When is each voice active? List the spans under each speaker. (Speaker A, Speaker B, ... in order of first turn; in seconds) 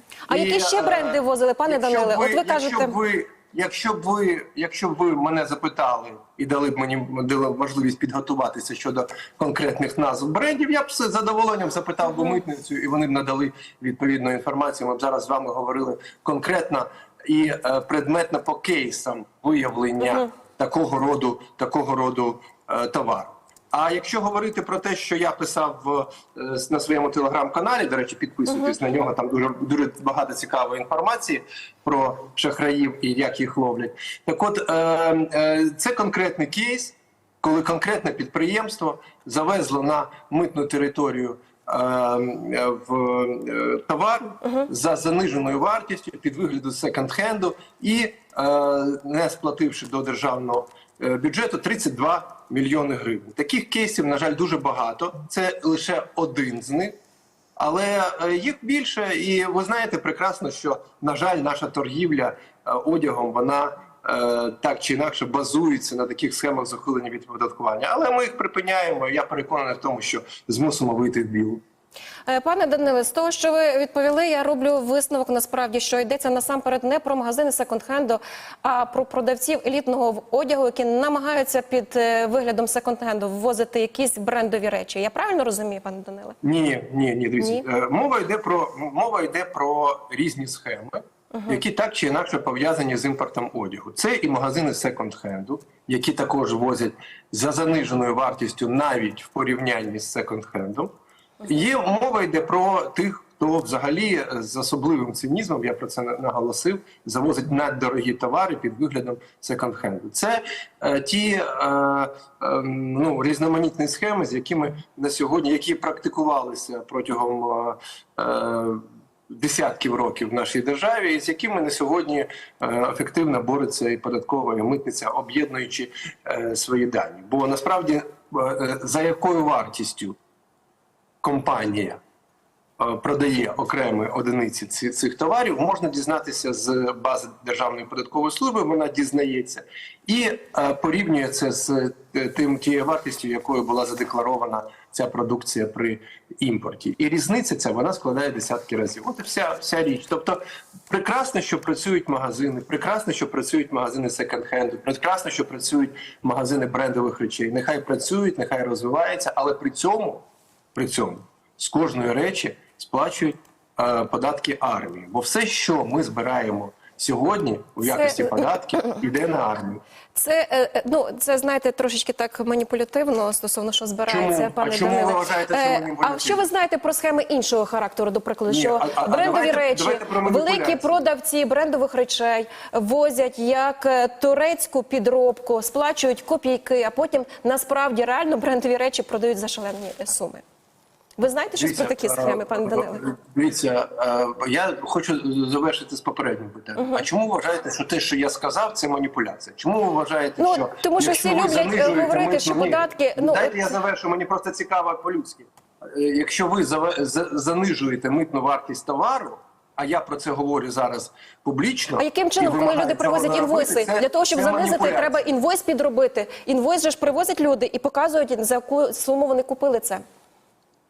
Speaker A: 0.3-3.0, 28.5-28.8, 72.3-86.4, 87.4-87.6, 91.3-91.6, 167.8-169.0, 170.1-190.4, 191.2-193.0, 196.8-197.1, 200.4-203.8, 212.0-220.0
Speaker B: 0.3-57.0, 57.6-71.6, 86.4-100.9, 101.4-130.2, 131.2-132.0, 132.8-169.8, 174.1-176.4, 178.5-181.1, 191.5-215.2